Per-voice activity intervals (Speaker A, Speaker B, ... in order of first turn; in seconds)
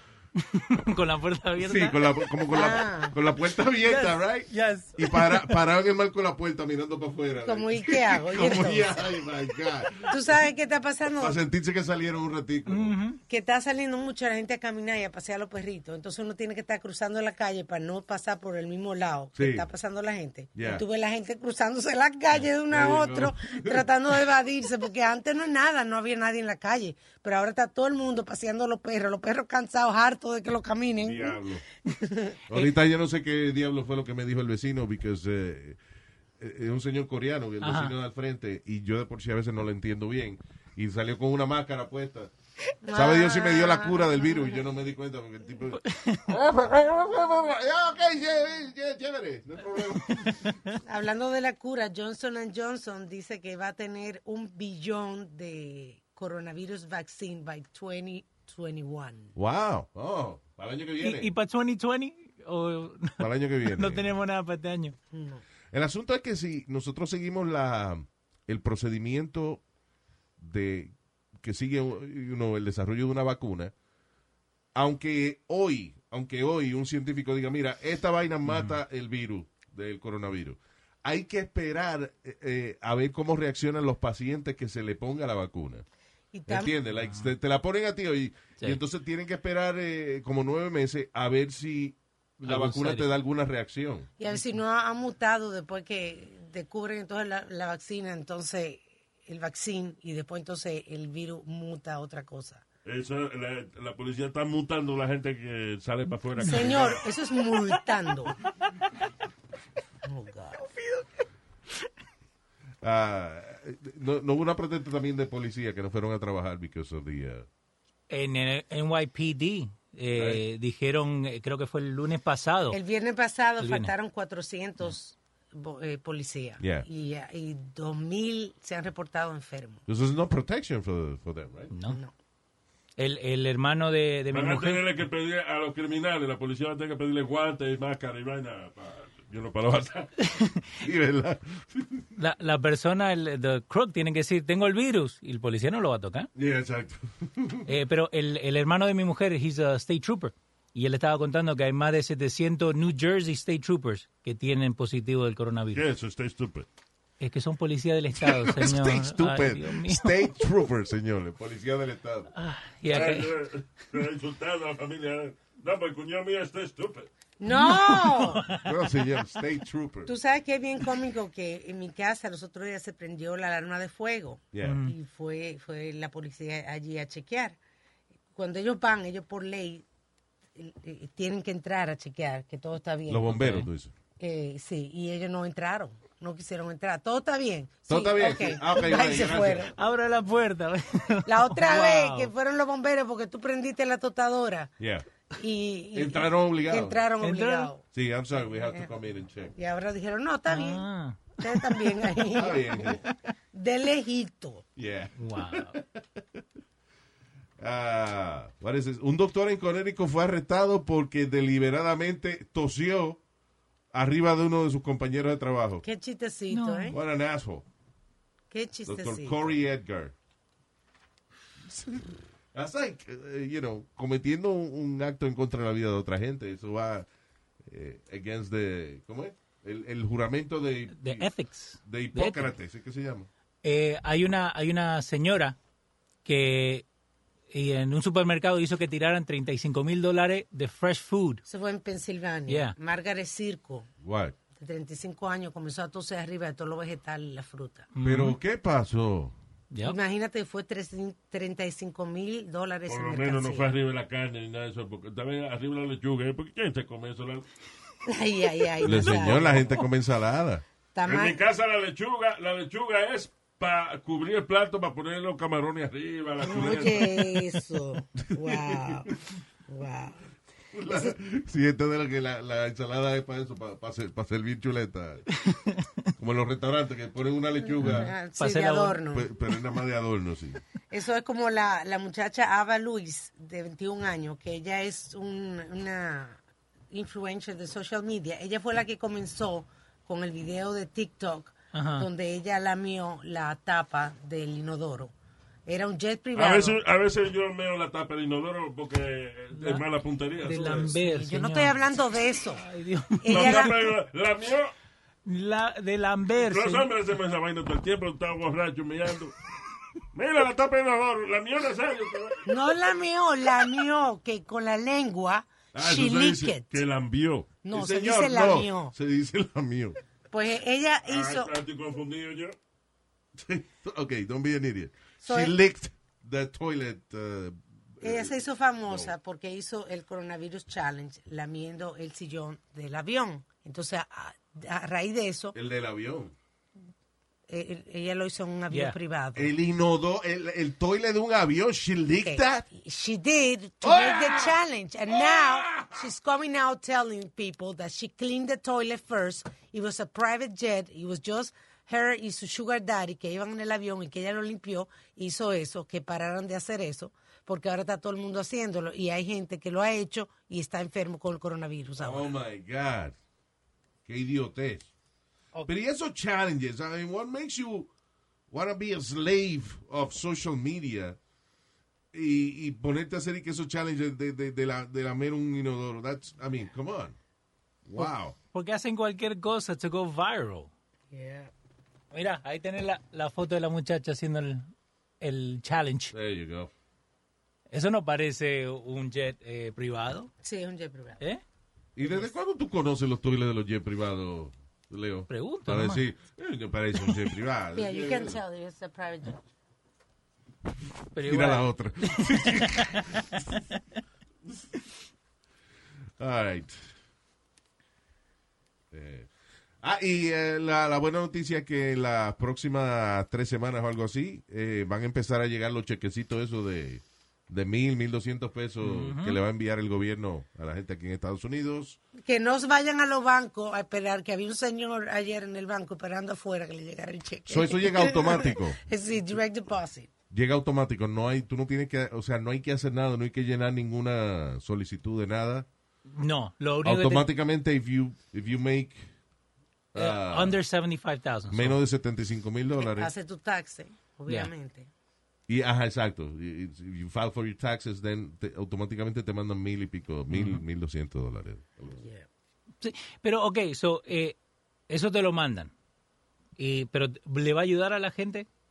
Speaker A: 0.4-2.1, 3.8-5.6, 12.7-13.2, 37.6-37.9, 45.8-46.2, 61.0-65.0, 78.5-78.8, 87.0-87.3, 92.4-93.1, 118.1-122.8, 123.6-123.9, 131.7-132.0, 133.0-134.8, 140.3-140.7, 142.2-146.3, 147.7-155.8, 157.2-160.3, 162.3-163.3, 167.5-168.7, 174.6-174.9, 183.4-183.7, 189.8-192.3, 197.2-197.7, 200.5-202.2, 205.2-205.8, 216.5-216.9, 230.9-232.5, 233.6-235.6, 236.2-236.8, 237.5-241.4, 242.5-242.7, 247.9-248.4, 249.7-250.0, 275.4-275.9, 277.8-279.0, 291.7-292.1, 299.5-299.8, 300.4-301.8, 302.5-303.8, 305.2-306.9, 338.7-338.9, 378.0-380.7, 382.1-384.7, 385.2-386.1, 387.7-390.3, 395.3-396.0, 401.1-403.2, 418.8-419.4, 436.1-437.3, 439.9-441.8, 450.3-450.6, 452.8-454.4, 454.9-455.7, 456.6-458.5
Speaker B: 1.6-10.2, 11.2-13.0, 19.4-19.7, 20.5-20.8, 22.7-23.9, 31.0-31.6, 32.5-35.8, 36.4-42.3, 42.9-50.6, 59.4-61.3, 63.2-64.2, 65.7-69.6, 70.4-73.7, 74.7-85.8, 86.5-94.1, 112.8-117.5, 120.1-120.4, 126.6-126.9, 129.9-131.7, 140.8-142.0, 146.3-147.7, 158.2-162.3, 168.6-170.1, 174.5-174.8, 183.1-183.9, 187.9-189.7, 194.8-195.1, 195.9-197.0, 197.9-199.5, 202.3-203.0, 204.8-206.0, 207.6-213.2, 213.9-215.8, 216.9-217.7, 218.9-220.1, 221.7-227.1, 227.6-231.3, 231.8-233.3, 244.0-244.3, 248.0-249.3, 258.8-260.6, 268.2-269.0, 270.7-275.3, 276.2-278.1, 279.1-280.6, 317.7-320.0, 323.3-329.1, 335.5-336.3, 339.3-342.7, 343.8-344.6, 345.1-346.0, 362.0-363.1, 364.0-364.9, 365.7-367.9, 368.5-371.2, 372.1-377.1, 377.9-378.3, 386.1-386.7, 391.9-398.4, 401.2-403.2, 406.2-406.9, 408.9-409.3, 409.8-422.0, 427.5-428.8, 430.3-435.7, 436.8-439.1, 439.9-440.6, 441.5-443.1, 445.5-452.0
Speaker C: 2.5-3.1, 7.4-9.0, 10.1-11.4, 13.3-31.4, 32.0-32.4, 42.8-44.5, 50.8-59.3, 65.1-65.4, 86.3-86.7, 94.2-102.6, 106.4-108.3, 110.0-110.7, 122.7-129.8, 131.9-132.1, 167.4-168.5, 170.1-177.6, 178.3-179.8, 180.6-183.5, 184.2-189.7, 191.2-194.7, 195.4-197.8, 199.6-200.8, 201.4-203.0, 203.5-204.6, 215.8-216.9, 218.5-219.5, 241.4-243.9, 244.6-247.9, 249.8-253.8, 258.1-259.8, 260.9-261.4, 266.4-269.1, 269.7-270.2, 270.9-271.1, 277.8-279.3, 280.9-286.4, 286.9-295.1, 295.6-296.8, 300.8-302.6, 303.2-303.8, 312.4-316.8, 317.6-318.9, 320.3-321.5, 325.2-325.5, 328.0-335.5, 337.5-339.5, 342.2-362.3, 381.1-381.5, 390.4-391.2, 397.7-399.4, 422.2-430.1, 442.8-444.9, 451.9-452.2
Speaker D: 102.8-107.0, 134.3-140.1, 155.7-156.7, 162.9-167.1, 252.9-257.4, 261.0-267.1, 296.3-300.9, 303.3-304.7, 306.4-309.3, 310.1-312.4, 315.7-317.6, 321.1-322.5